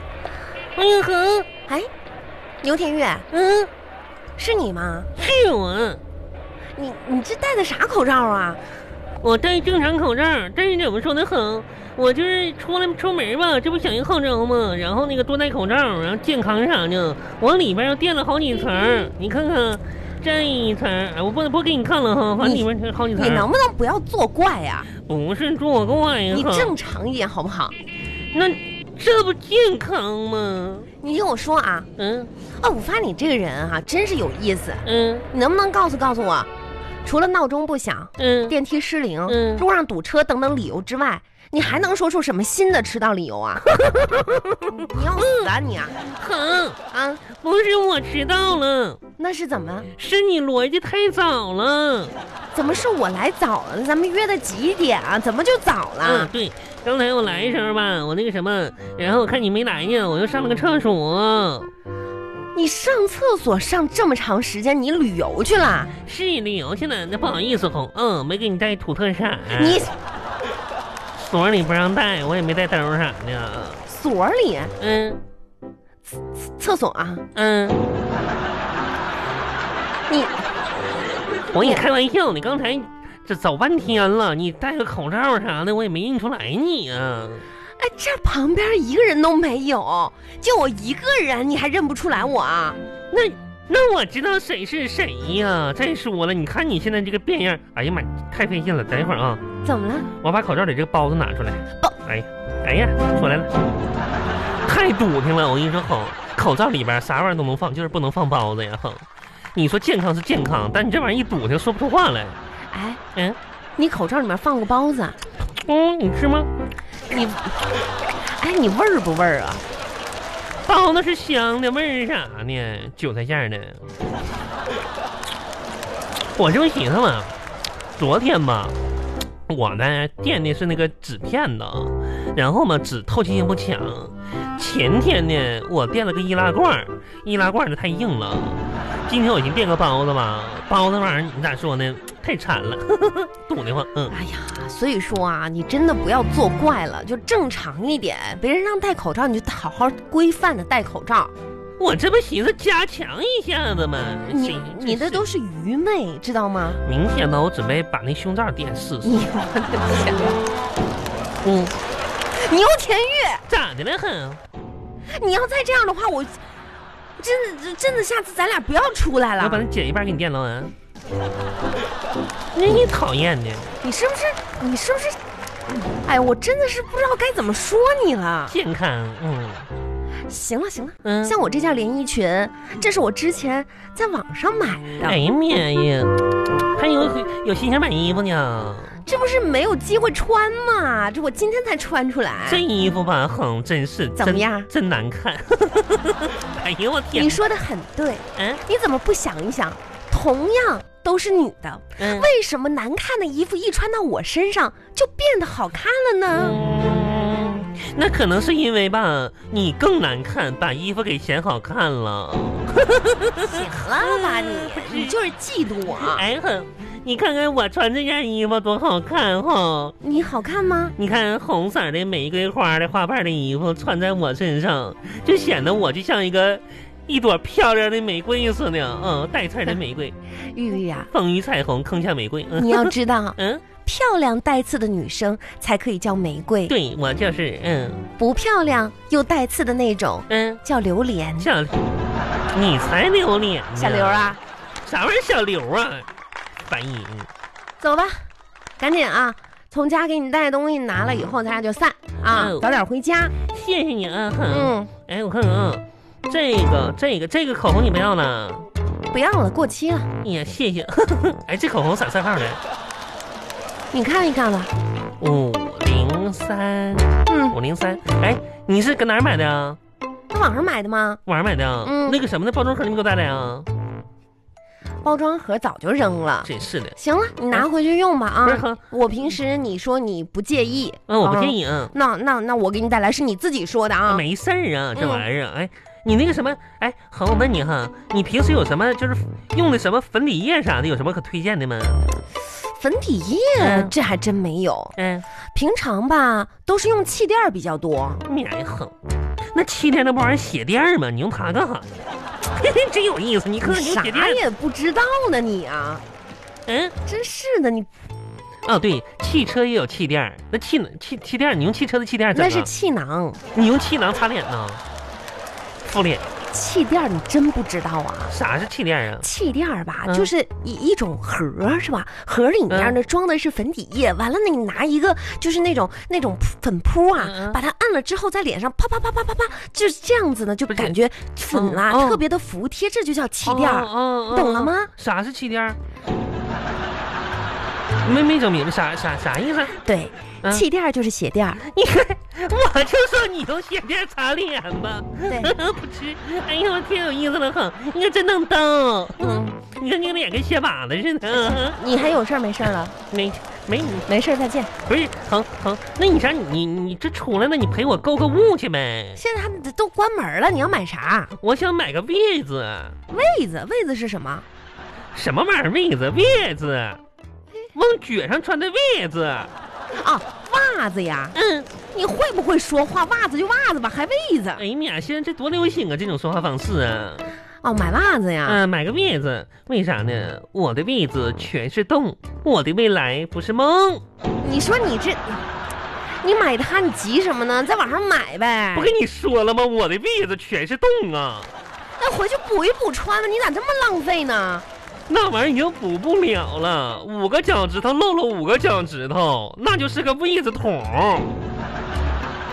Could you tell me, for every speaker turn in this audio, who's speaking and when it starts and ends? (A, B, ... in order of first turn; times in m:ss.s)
0:00.8-0:01.5 A
0:02.6-0:03.3 B
0:03.3-0:03.7 A
0:04.4-0:05.1 B
0:05.2-0:06.0 A
0:06.8-0:08.6 B
0:09.2-0:23.5 A
0:22.4-0:24.9 B
0:25.0-0:26.7 A
0:26.3-0:27.8 B
0:28.3-0:30.9 A
0:31.0-0:31.9 B
0:32.0-0:32.3 A
0:32.6-0:36.5 B
0:34.8-0:35.3 A
0:37.0-0:46.0 B
0:38.2-0:38.6 A
0:39.3-0:39.6 A
0:43.7-0:45.5 A
0:46.0-0:46.8 A
0:46.9-0:47.2 B
0:47.3-0:49.0 A
0:49.2-0:49.9 B
0:49.9-0:52.2 A
0:52.5-0:56.3 B
0:56.0-1:01.7 A
1:02.5-1:05.9 B
1:06.0-1:09.9 A
1:09.5-1:09.9 B
1:11.2-1:13.8 A
1:13.9-1:14.7 B
1:14.8-1:15.2 A
1:16.2-1:17.2 B
1:17.4-1:17.8 A
1:20.1-1:20.4 B
1:21.5-1:27.5 A
1:21.6-1:21.8 B
1:27.8-1:32.8 B
1:33.1-1:39.4 A
1:39.6-1:40.1 B
1:40.2-1:43.5 A
1:44.6-1:52.4 A
1:52.7-1:53.0 B
1:53.8-1:55.2 B
1:55.6-1:56.5 A
1:57.1-1:57.6 B
1:58.2-1:59.6 B
2:00.7-2:03.8 A
2:06.4-2:07.4 A
2:08.0-2:08.8 A
2:09.5-2:24.1 A
2:24.1-2:31.3 B
2:31.8-2:35.2 A
2:34.3-2:36.8 B
2:36.8-2:39.2 A
2:39.0-2:40.4 B
2:41.4-2:41.8 A
2:42.3-2:43.4 B
2:43.5-2:44.4 A
2:45.1-2:46.4 B
2:47.2-2:49.6 B
2:49.4-2:50.7 A
2:52.5-2:53.8 A
2:53.8-2:55.2 B
2:56.0-2:58.6 B
2:58.5-2:59.7 A
3:00.3-3:05.2 B
3:01.0-3:01.4 A
3:05.0-3:09.0 A
3:09.0-3:12.6 B
3:12.4-3:17.4 A
3:14.2-3:14.7 B
3:17.1-3:26.6 B
3:18.4-3:18.6 A
3:22.0-3:22.3 A
3:26.4-3:35.2 A
3:33.4-3:36.2 B
3:36.0-3:40.0 A
3:40.0-3:41.0 B
3:41.0-3:50.2 A
3:50.5-3:51.1 B
3:51.1-3:53.6 A
3:52.6-3:56.8 B
3:56.7-3:58.0 A
3:58.2-4:01.5 B
4:00.3-4:00.6 A
4:01.4-4:01.9 A
4:02.5-4:06.1 A
4:03.8-4:04.4 B
4:06.6-4:07.3 A
4:07.8-4:08.3 B
4:08.8-4:13.3 B
4:12.3-4:12.6 A
4:13.4-4:18.7 A
4:14.5-4:14.9 B
4:19.1-4:20.1 B
4:20.2-4:22.6 A
4:23.9-4:24.7 B
4:25.2-4:29.8 A
4:27.3-4:27.6 B
4:30.3-4:31.2 B
4:31.3-4:33.7 A
4:31.8-4:32.2 B
4:35.0-4:44.2 B
4:36.4-4:37.0 A
4:38.4-4:38.8 A
4:41.1-4:41.9 A
4:44.1-4:52.1 A
4:45.0-4:45.3 B
4:52.7-4:55.0 B
4:53.6-4:53.9 A
4:55.0-4:55.3 A
4:55.5-4:58.2 B
4:58.2-4:58.9 A
4:59.5-5:01.9 A
5:02.5-5:04.4 A
5:03.6-5:06.0 B
5:06.7-5:07.0 A
5:07.0-5:07.9 B
5:08.6-5:12.7 A
5:12.3-5:13.4 B
5:13.5-5:14.8 A
5:15.8-5:16.3 A
5:16.5-5:18.3 B
5:18.3-5:19.2 A
5:19.2-5:34.9 B
5:22.7-5:23.0 A
5:27.2-5:27.6 A
5:31.5-5:32.2 A
5:33.4-5:35.8 A
5:38.0-5:39.8 A
5:39.8-5:41.6 B
5:41.6-5:51.8 A
5:45.3-5:45.5 B
5:49.2-5:49.4 B
5:51.6-5:53.0 B
5:53.1-5:54.1 A
5:54.1-5:54.7 B
5:54.9-5:59.2 A
5:59.2-6:01.3 B
6:01.4-6:03.0 A
6:03.1-6:04.5 B
6:05.1-6:07.0 A
6:07.7-6:09.5 A
6:10.0-6:11.4 B
6:11.4-6:11.7 A
6:11.9-6:14.6 B
6:14.6-6:17.3 A
6:17.6-6:18.6 B
6:18.4-6:24.0 A
6:24.4-6:25.4 B
6:26.2-6:28.9 B
6:28.8-6:31.5 A
6:32.0-6:34.6 B
6:35.1-6:41.4 A